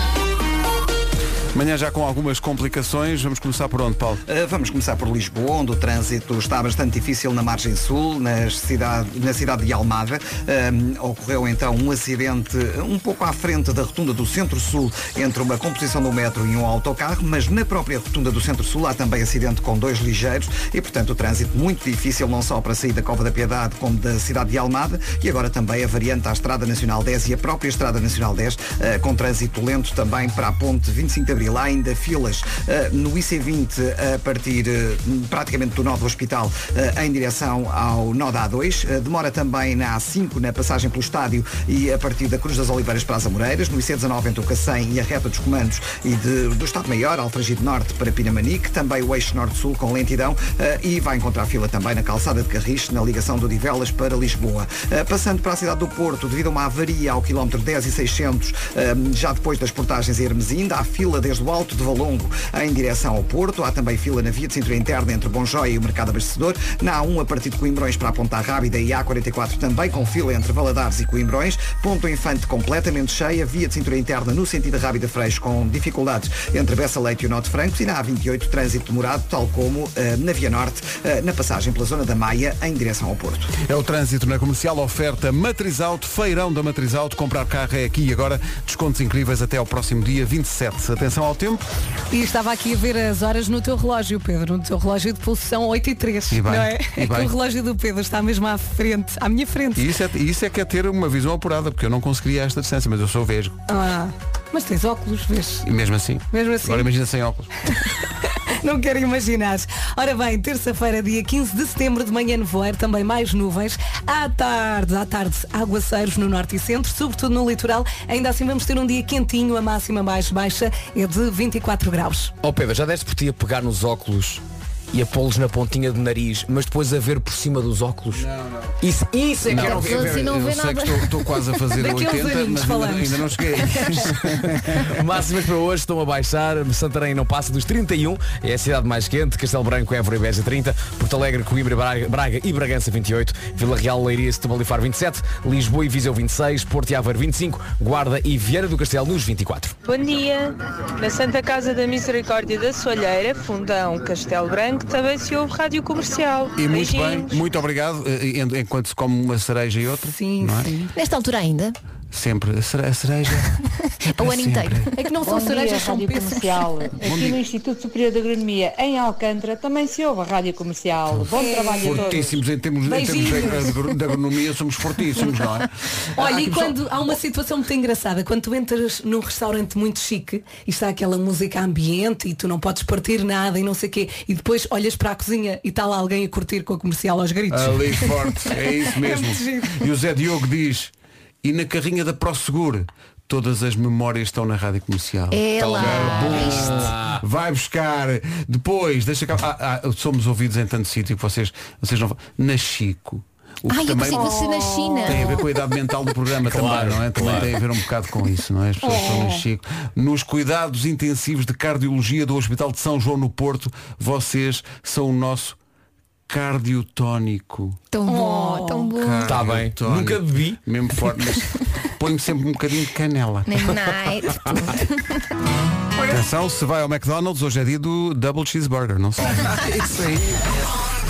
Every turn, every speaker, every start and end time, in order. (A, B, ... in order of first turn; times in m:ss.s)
0:01.5-0:04.2 A
0:04.3-1:23.5 B
1:23.6-1:31.7 A
1:32.1-1:39.9 C
1:36.3-1:37.3 A
1:39.8-1:43.6 A
1:43.7-1:45.7 C
1:45.6-1:47.7 A
1:46.3-1:46.9 C
1:47.8-2:02.3 C
2:02.4-2:08.3 D
2:08.1-2:08.8 A
2:08.8-2:10.4 D
2:09.4-2:14.8 A
2:09.5-2:11.5 E
2:11.8-2:14.2 C
2:14.3-2:29.7 D
2:29.8-2:37.3 F
2:36.6-2:40.7 A
2:40.1-2:40.9 C
2:41.0-2:41.8 E
2:42.1-2:44.9 A
2:44.1-2:45.0 E
2:45.0-2:46.9 C
2:45.2-2:52.4 F
2:47.0-2:47.4 A
2:51.3-2:52.2 C
2:51.8-2:56.8 A
2:52.8-2:53.8 C
2:56.1-3:09.8 C
3:07.5-3:24.4 A
3:15.3-3:16.9 E
3:15.6-3:17.2 D
3:23.7-3:25.4 E
3:24.1-3:25.3 C
3:25.0-3:35.6 A
3:26.4-3:27.6 D
3:28.8-3:29.4 C
3:36.3-3:37.8 A
3:37.9-3:39.4 E
3:38.1-3:38.9 C
3:38.9-3:43.7 A
3:39.2-3:40.6 D
3:43.4-3:45.2 E
3:46.0-3:50.5 A